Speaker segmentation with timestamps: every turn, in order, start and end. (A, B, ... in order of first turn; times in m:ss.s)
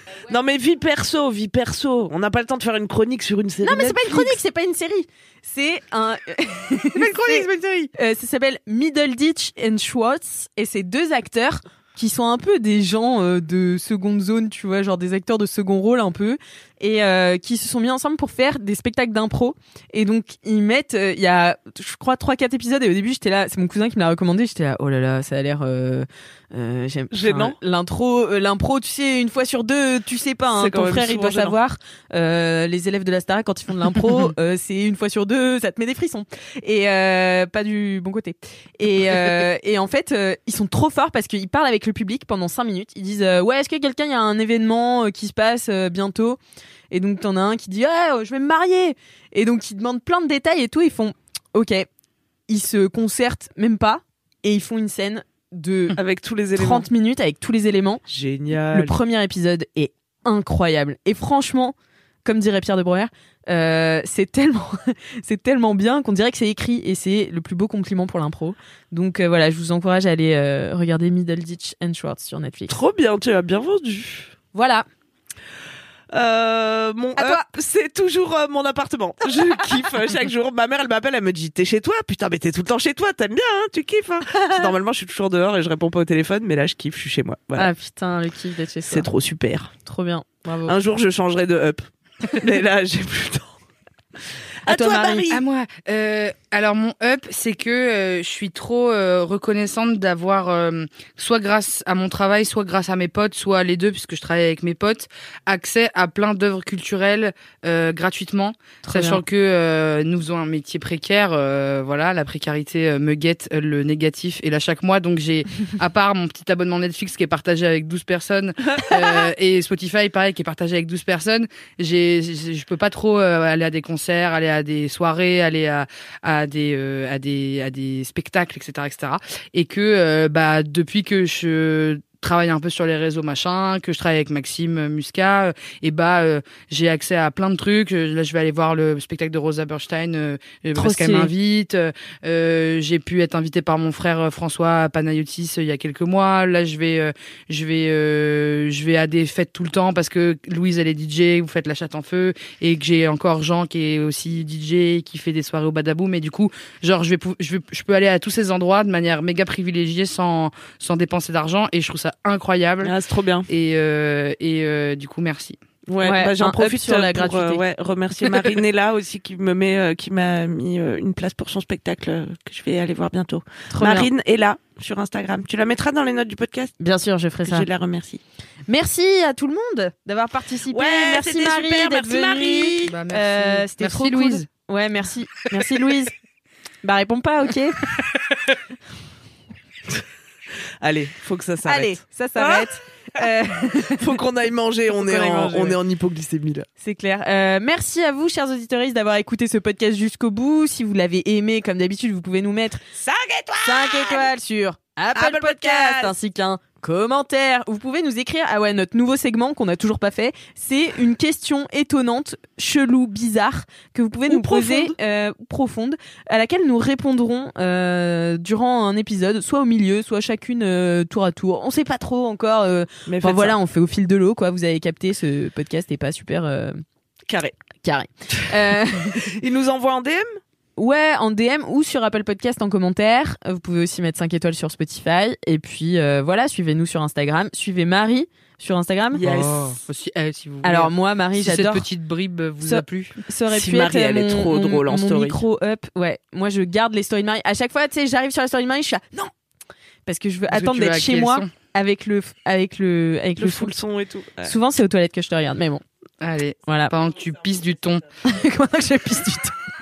0:00.3-0:04.4 A
0:03.6-0:46.4 B
0:07.0-0:07.9 C
0:27.1-0:27.6 A
0:30.5-0:31.6 A
0:46.9-0:51.9 B
0:52.5-0:56.0 B
0:56.0-0:56.9 A
0:56.6-0:58.0 B
0:58.1-0:59.0 A
0:58.6-1:12.7 B
1:12.7-1:14.3 A
1:14.5-1:14.9 B
1:16.1-1:27.7 A
1:17.2-1:17.5 B
1:24.3-1:24.7 B
1:27.6-1:29.1 B
1:28.9-1:29.7 A
1:29.8-1:30.8 B
1:30.6-1:33.6 A
1:34.6-1:35.4 A
1:34.6-1:35.3 B
1:35.3-2:42.9 C
1:48.8-1:49.2 B
2:20.7-2:21.3 B
2:42.8-2:43.5 A
2:43.5-2:45.6 C
2:45.9-2:56.7 A
2:46.0-2:47.6 B
2:53.7-2:54.1 B
2:56.8-2:57.7 B
2:57.4-2:58.2 A
2:58.7-3:06.1 B
3:00.7-3:02.9 A
3:02.8-3:04.5 C
3:06.8-3:07.8 B
3:10.8-3:12.7 A
3:11.6-3:14.2 B
3:14.0-3:16.7 A
3:14.9-3:15.8 B
3:16.8-3:22.8 B
3:23.0-3:24.3 A
3:23.6-3:46.8 B
3:25.1-3:26.1 A
3:34.3-3:34.9 A
3:43.1-3:43.6 A
3:47.3-3:47.6 A
3:47.8-3:49.3 B
3:48.4-3:50.4 A
3:50.8-3:59.6 B
3:59.1-4:03.2 C
4:00.6-4:01.8 B
4:02.6-4:09.3 B
4:03.5-4:05.4 A
4:10.0-4:13.7 B
4:10.5-4:11.5 C
4:13.4-4:14.6 A
4:14.4-4:15.8 B
4:16.2-4:18.0 C
4:16.7-4:16.9 B
4:18.2-4:19.6 B